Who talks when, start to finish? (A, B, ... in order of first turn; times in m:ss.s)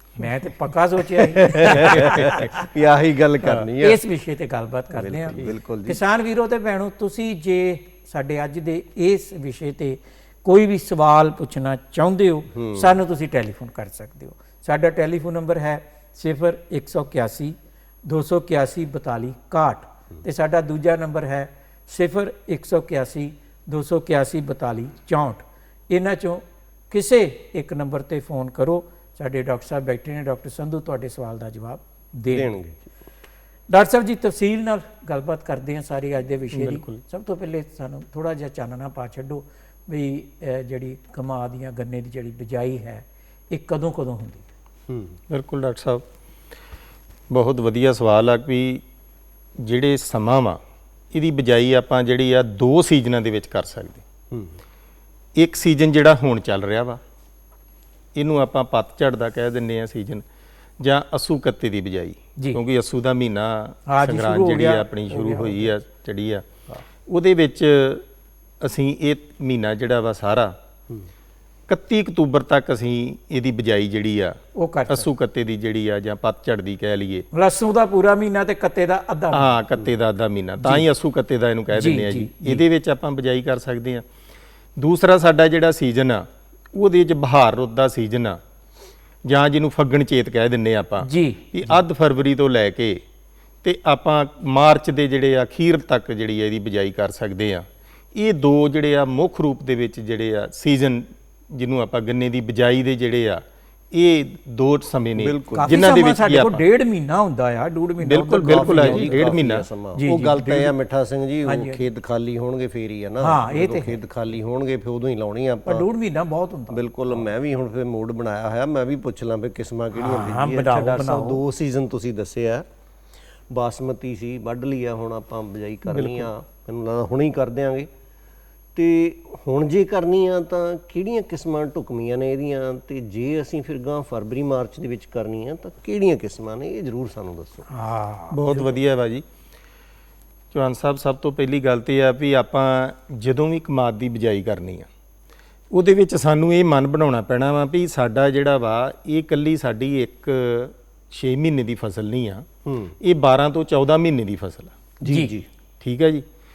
0:00.2-0:02.7 A
0:01.0-0:04.0 B
0:03.5-0:32.5 A
0:04.9-0:06.0 B
0:12.5-0:13.0 B
0:32.3-0:32.9 B
0:33.7-0:44.5 A
0:36.5-0:37.0 C
0:44.9-0:45.2 B
0:45.3-0:46.0 C
0:47.3-0:48.8 C
0:49.6-0:50.6 C
0:51.1-0:54.0 C
0:54.3-0:54.6 B
0:55.4-0:57.0 C
0:58.2-1:00.2 C
1:00.8-1:06.4 C
1:03.9-1:05.7 A
1:07.1-1:08.0 C
1:08.6-1:10.6 C
1:11.7-1:17.2 C
1:14.6-1:15.1 A
1:17.3-1:19.5 A
1:19.3-1:24.0 C
1:20.6-1:20.9 A
1:21.7-1:22.6 A
1:24.8-1:28.4 C
1:29.2-1:33.0 C
1:31.0-1:31.4 A
1:33.6-1:46.6 C
1:45.2-1:45.8 B
1:45.6-1:49.2 A
1:48.0-1:49.7 C
1:48.4-1:55.9 B
1:50.0-1:50.7 A
1:51.5-1:51.8 A
1:53.2-1:54.0 A
1:55.7-1:56.8 A
1:56.7-2:02.7 B
1:59.9-2:01.4 A
2:03.5-2:07.9 B
2:05.9-2:06.3 C
2:08.8-2:17.6 B
2:17.7-2:18.7 A
2:18.3-2:19.2 C
2:20.5-2:24.9 C
2:25.7-2:32.5 C
2:32.6-2:33.0 B
2:33.0-2:34.7 C
2:35.0-2:35.5 B
2:35.0-2:35.3 A
2:35.8-2:36.2 C